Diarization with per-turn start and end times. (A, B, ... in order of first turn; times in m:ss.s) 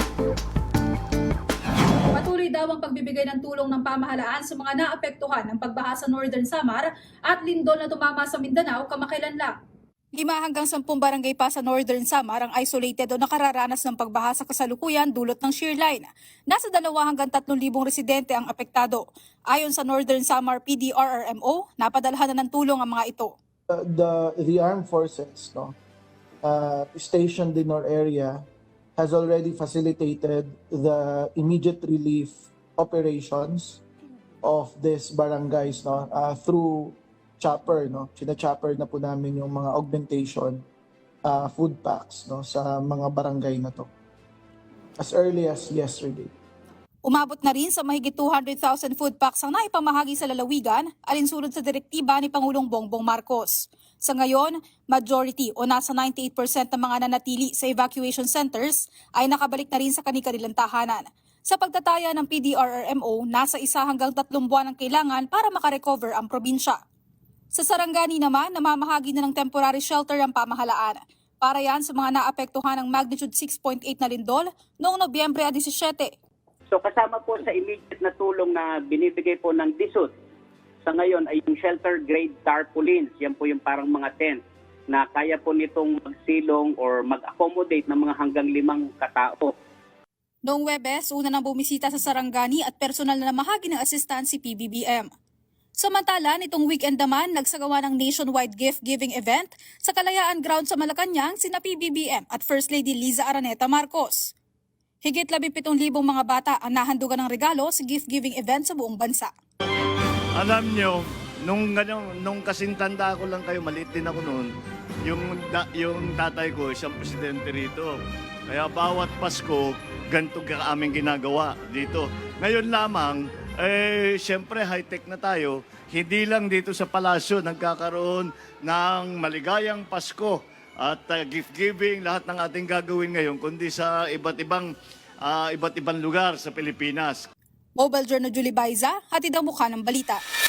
0:02.1-0:09.5 A
0:10.2-0:23.4 A
0:23.7-0:25.8 B
0:26.4-0:28.5 B
0:29.0-0:33.8 B
0:34.4-0:40.6 B
0:41.2-0:43.9 B
0:45.0-0:46.3 B
0:47.0-1:06.8 A
1:07.5-1:16.1 A
1:16.7-1:20.2 C
1:20.9-1:29.5 C
1:30.5-1:35.1 A
1:35.8-1:44.3 A
1:45.0-1:49.3 A
1:50.4-1:54.5 D
1:55.1-1:58.0 D
1:58.5-2:14.7 D
2:15.2-2:17.3 D
2:17.8-2:20.2 A